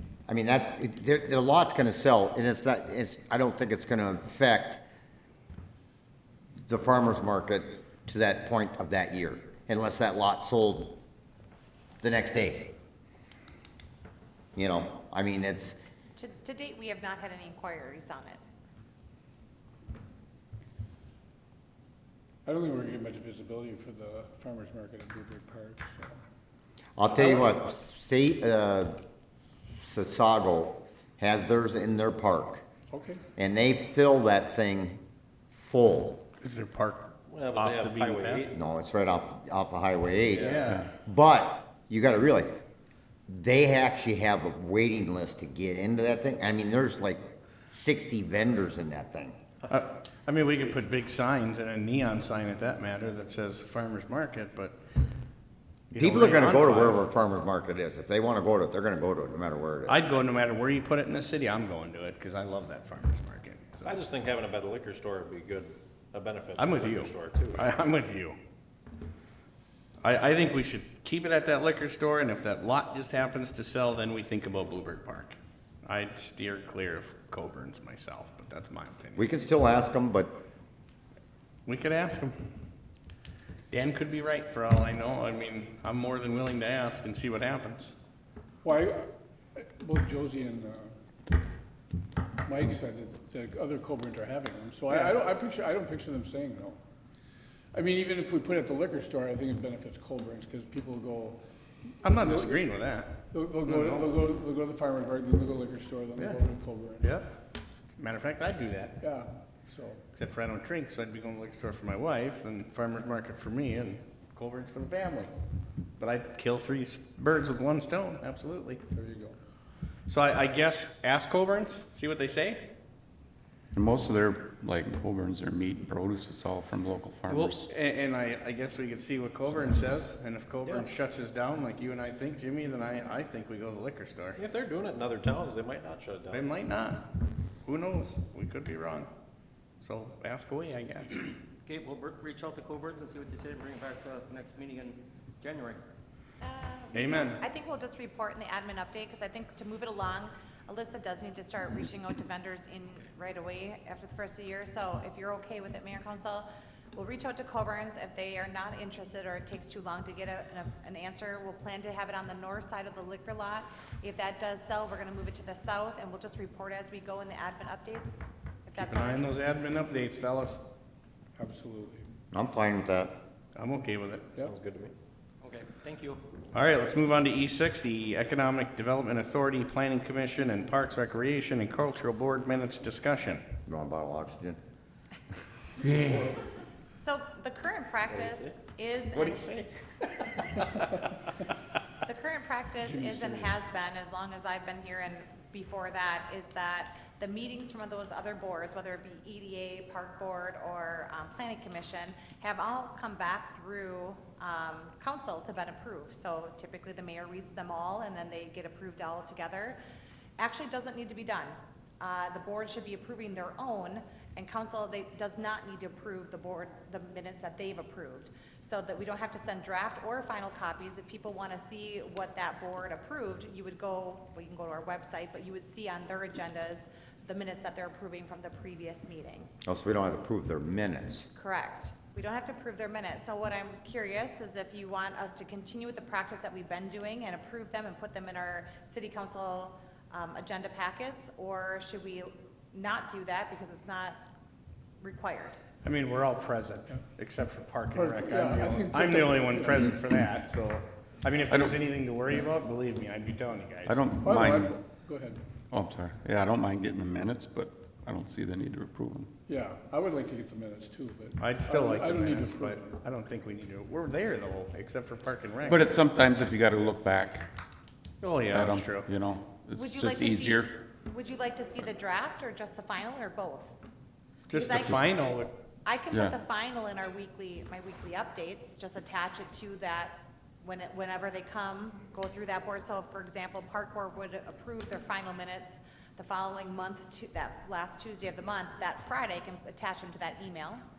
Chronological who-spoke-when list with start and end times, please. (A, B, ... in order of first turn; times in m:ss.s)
0:00.3-0:04.8 A
0:06.7-0:11.0 A
0:12.0-0:12.7 A
0:14.6-0:15.8 A
0:16.2-0:18.4 B
0:22.4-0:26.2 C
0:27.0-0:29.0 A
0:29.8-0:32.6 A
0:32.9-0:33.2 C
0:33.4-0:35.0 A
0:35.5-0:36.2 A
0:36.4-0:38.5 D
0:37.3-0:38.5 E
0:38.5-0:42.5 A
0:40.3-0:40.9 D
0:43.3-0:49.4 A
0:49.7-0:54.8 D
0:55.9-0:57.0 D
0:56.0-1:00.0 A
0:59.9-1:04.0 D
1:03.8-1:07.7 E
1:06.6-1:08.4 D
1:10.0-1:19.2 D
1:19.1-1:20.4 A
1:21.6-1:22.4 D
1:23.7-1:27.9 D
1:28.6-1:30.9 C
1:32.4-1:36.8 C
1:34.9-1:35.2 D
1:37.7-1:41.4 C
1:42.0-1:44.2 D
1:42.1-1:42.6 C
1:43.3-1:47.1 C
1:47.0-1:47.4 D
1:48.0-1:49.0 D
1:49.0-1:50.0 C
1:50.1-1:55.3 D
1:56.0-1:58.8 D
1:58.9-1:59.4 C
2:00.1-2:02.6 D
2:03.7-2:07.6 F
2:07.3-2:14.4 D
2:14.4-2:16.4 E
2:16.3-2:17.0 D
2:17.6-2:19.1 D
2:19.8-2:21.3 D
2:21.6-2:25.8 G
2:26.4-2:49.3 B
2:26.9-2:27.4 D
2:48.8-2:50.6 D
2:51.4-2:52.1 C
2:52.3-2:53.2 A
2:53.6-2:54.4 D
2:54.4-2:54.9 E
2:55.4-2:56.2 G
2:56.5-3:03.4 D
3:03.6-3:04.6 A
3:06.9-3:09.5 B
3:08.1-3:08.5 E
3:09.2-3:09.6 E
3:12.0-3:29.8 B
3:12.8-3:13.5 C
3:30.4-3:49.5 B
3:49.6-3:51.3 A
3:51.3-4:04.2 B
4:05.0-4:05.6 B
4:05.8-4:14.1 D
4:07.9-4:09.9 C
4:11.5-4:11.8 F
4:13.8-4:14.8 F
4:14.2-4:15.4 C
4:15.7-4:19.3 F
4:19.4-4:23.0 C
4:21.4-4:25.9 D
4:25.6-4:27.5 F
4:28.2-4:29.1 D
4:28.5-4:30.7 F
4:29.8-4:33.8 B
4:34.5-4:35.5 D
4:34.5-4:50.8 B